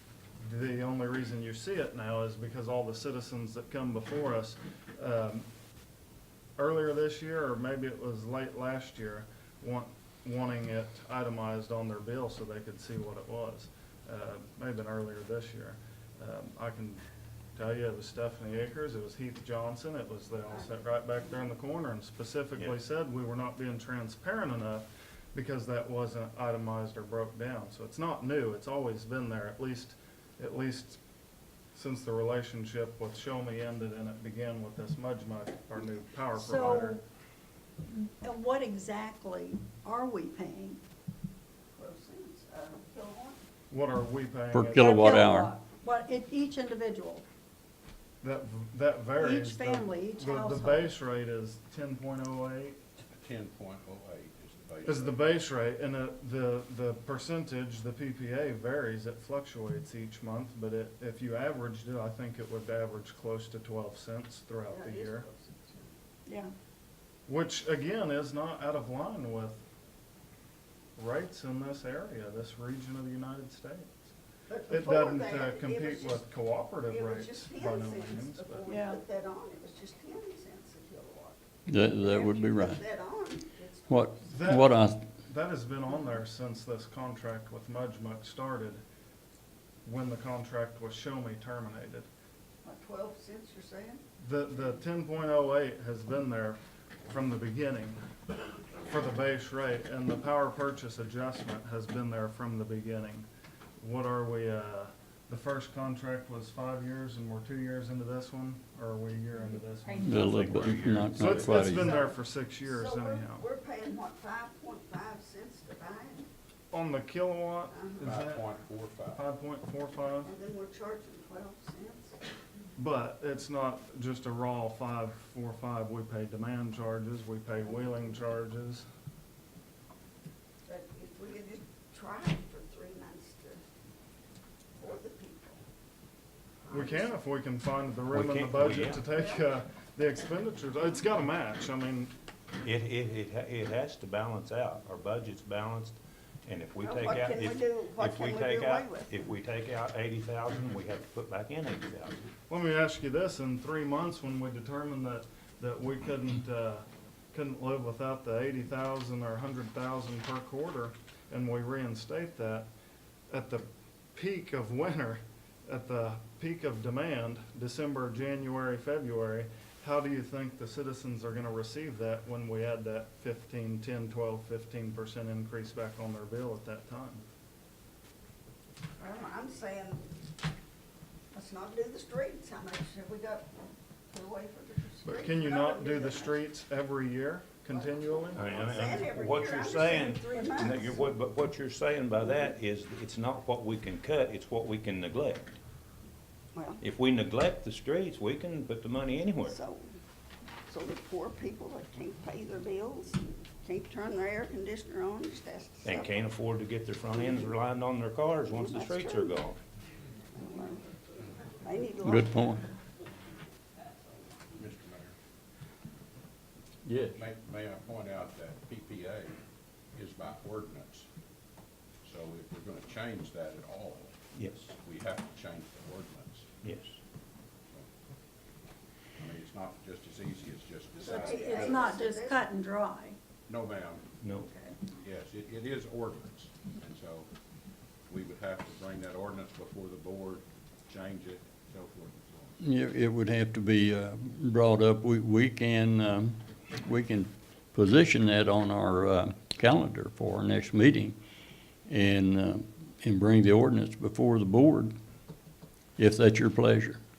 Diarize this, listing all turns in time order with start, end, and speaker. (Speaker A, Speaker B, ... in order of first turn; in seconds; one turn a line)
Speaker A: 0.4-5.5
Speaker A: 6.6-17.0
Speaker A: 17.6-31.0
Speaker B: 20.5-20.8
Speaker A: 31.7-37.0
Speaker C: 36.4-37.0
Speaker C: 38.2-40.8
Speaker B: 41.7-43.4
Speaker A: 43.7-45.4
Speaker D: 44.5-45.5
Speaker C: 44.8-47.2
Speaker A: 48.2-52.8
Speaker C: 49.2-50.8
Speaker E: 53.1-55.3
Speaker A: 54.9-65.3
Speaker B: 64.7-66.0
Speaker C: 66.3-66.5
Speaker A: 67.3-69.6
Speaker A: 71.0-74.1
Speaker B: 74.5-76.3
Speaker A: 74.7-78.7
Speaker B: 76.9-81.4
Speaker C: 78.7-79.0
Speaker D: 81.7-82.8
Speaker B: 82.0-84.6
Speaker D: 83.9-85.0
Speaker A: 84.3-88.8
Speaker A: 89.8-92.1
Speaker B: 92.6-94.0
Speaker A: 94.2-98.0
Speaker A: 98.8-103.3
Speaker A: 103.8-113.5
Speaker F: 109.9-111.7
Speaker D: 110.0-112.0
Speaker B: 111.3-116.3
Speaker A: 116.7-118.5
Speaker B: 117.7-118.1
Speaker E: 118.0-119.2
Speaker A: 119.1-120.3
Speaker B: 120.2-122.2
Speaker A: 122.8-128.8
Speaker B: 127.7-128.3
Speaker B: 130.7-133.6
Speaker B: 134.8-135.6
Speaker B: 136.7-137.1
Speaker A: 136.7-142.1
Speaker F: 138.1-139.0
Speaker B: 138.8-139.5
Speaker F: 142.6-152.2
Speaker B: 146.8-149.3
Speaker A: 152.5-162.7
Speaker A: 163.3-177.2
Speaker B: 179.0-180.1
Speaker B: 181.3-183.5
Speaker B: 184.1-186.5
Speaker A: 185.0-188.5
Speaker B: 187.7-191.1
Speaker F: 188.3-195.6
Speaker B: 196.5-196.8
Speaker F: 196.8-199.6
Speaker B: 199.4-199.9
Speaker B: 200.7-206.2
Speaker F: 205.8-209.6
Speaker B: 208.5-209.4
Speaker B: 210.3-210.8
Speaker B: 211.6-212.6
Speaker D: 212.0-212.6
Speaker E: 214.5-215.1
Speaker D: 216.8-217.2
Speaker E: 217.2-219.3
Speaker E: 219.9-221.1
Speaker E: 222.0-224.2
Speaker F: 224.3-224.7
Speaker E: 224.8-226.6
Speaker F: 226.6-227.0
Speaker E: 229.2-232.0
Speaker B: 231.0-232.4
Speaker C: 231.4-233.2
Speaker E: 233.5-234.1
Speaker F: 234.2-234.5
Speaker E: 234.9-237.3
Speaker E: 238.1-242.6
Speaker D: 242.6-251.2
Speaker D: 251.9-255.0
Speaker D: 256.0-257.0